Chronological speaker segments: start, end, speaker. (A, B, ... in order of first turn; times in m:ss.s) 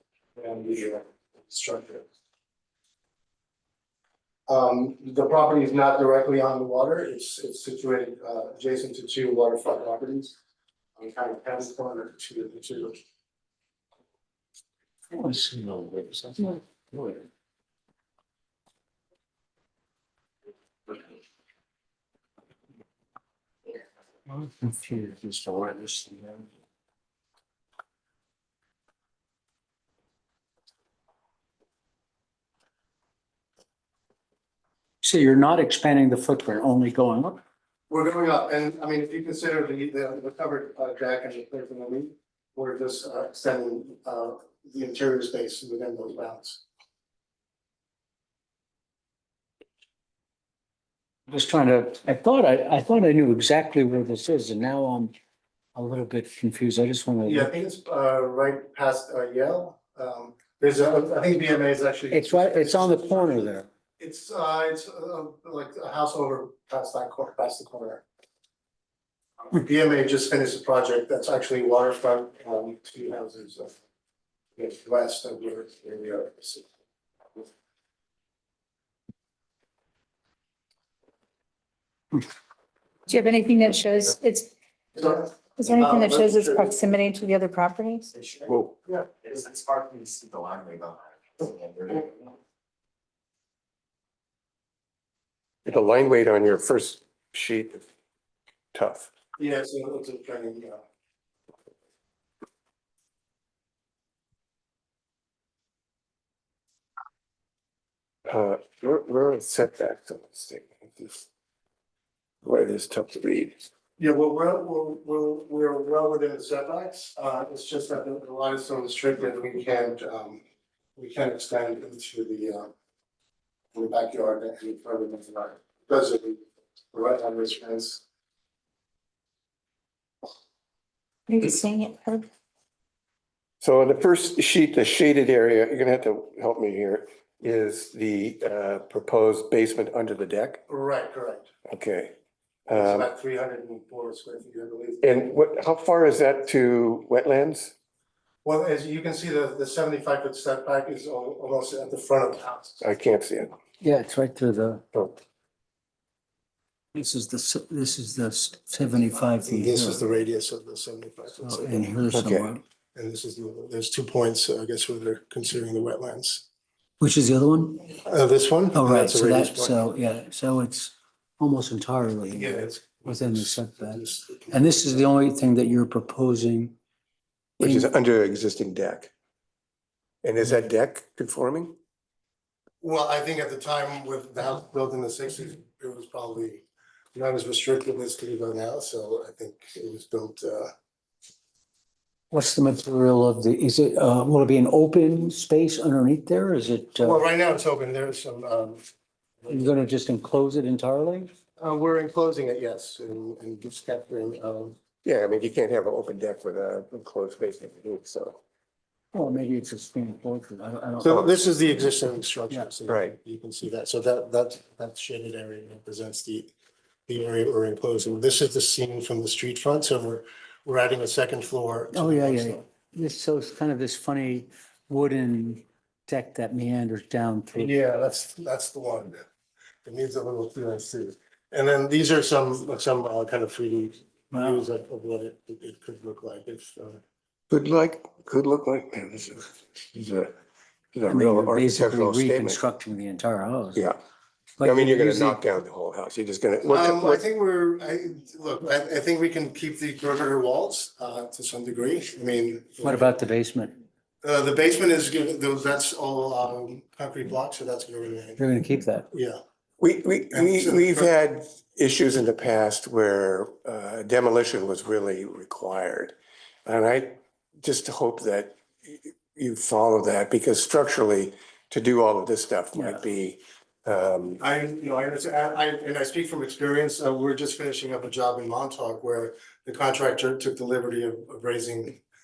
0:00.4-0:02.1 A
0:04.5-0:10.4 A
0:11.0-0:13.0 A
0:15.1-0:17.2 B
0:24.3-0:26.4 B
0:35.0-0:37.4 B
0:37.9-0:46.6 A
0:51.3-0:55.1 B
0:55.7-0:57.5 B
0:57.2-1:08.0 A
1:02.1-1:03.7 B
1:09.5-1:13.7 A
1:14.6-1:16.6 A
1:23.1-1:24.5 C
1:25.0-1:26.5 A
1:25.6-1:28.1 C
1:28.4-1:28.7 D
1:29.3-1:31.0 E
1:31.6-1:32.0 E
1:35.6-1:37.8 D
1:38.7-1:39.1 D
1:39.4-1:40.8 A
1:48.3-1:51.2 D
1:52.4-1:53.6 D
1:54.0-2:00.4 A
2:01.0-2:02.7 A
2:03.7-2:06.4 A
2:06.9-2:08.0 A
2:11.3-2:12.3 C
2:13.6-2:20.6 D
2:20.7-2:21.5 A
2:21.7-2:22.1 D
2:22.7-2:25.3 A
2:22.7-2:23.1 D
2:25.0-2:27.7 D
2:28.4-2:32.8 A
2:32.8-2:33.5 D
2:33.8-2:34.8 B
2:36.9-2:40.0 B
2:39.4-2:42.0 A
2:41.4-2:42.6 B
2:42.1-2:42.5 D
2:42.9-2:46.4 A
2:47.0-2:47.8 B
2:48.0-2:49.8 A
2:48.7-2:56.8 B
2:52.3-2:54.6 A
2:57.6-2:59.1 D
2:57.6-2:57.9 B
3:00.2-3:01.8 D
3:02.8-3:06.6 A
3:07.1-3:10.7 A
3:12.3-3:17.2 B
3:17.0-3:18.8 A
3:19.5-3:21.3 B
3:21.6-3:24.8 A
3:25.0-3:28.4 D
3:29.1-3:31.5 B
3:31.0-3:36.5 A
3:32.9-3:33.2 D
3:37.1-3:42.6 A
3:41.9-3:47.7 B
3:47.5-3:49.2 A
3:49.8-3:57.0 A
3:54.3-3:54.7 B
3:57.5-4:00.3 D
4:00.9-4:02.6 D
4:01.1-4:03.8 B
4:04.6-4:05.4 B
4:04.6-4:07.2 D
4:06.7-4:13.1 A
4:12.8-4:13.7 B
4:14.2-4:18.4 A
4:18.4-4:19.1 B
4:19.1-4:19.4 A
4:19.8-4:26.1 D
4:20.3-4:21.1 A
4:26.6-4:34.4 D
4:32.8-4:33.0 B
4:34.4-4:42.0 A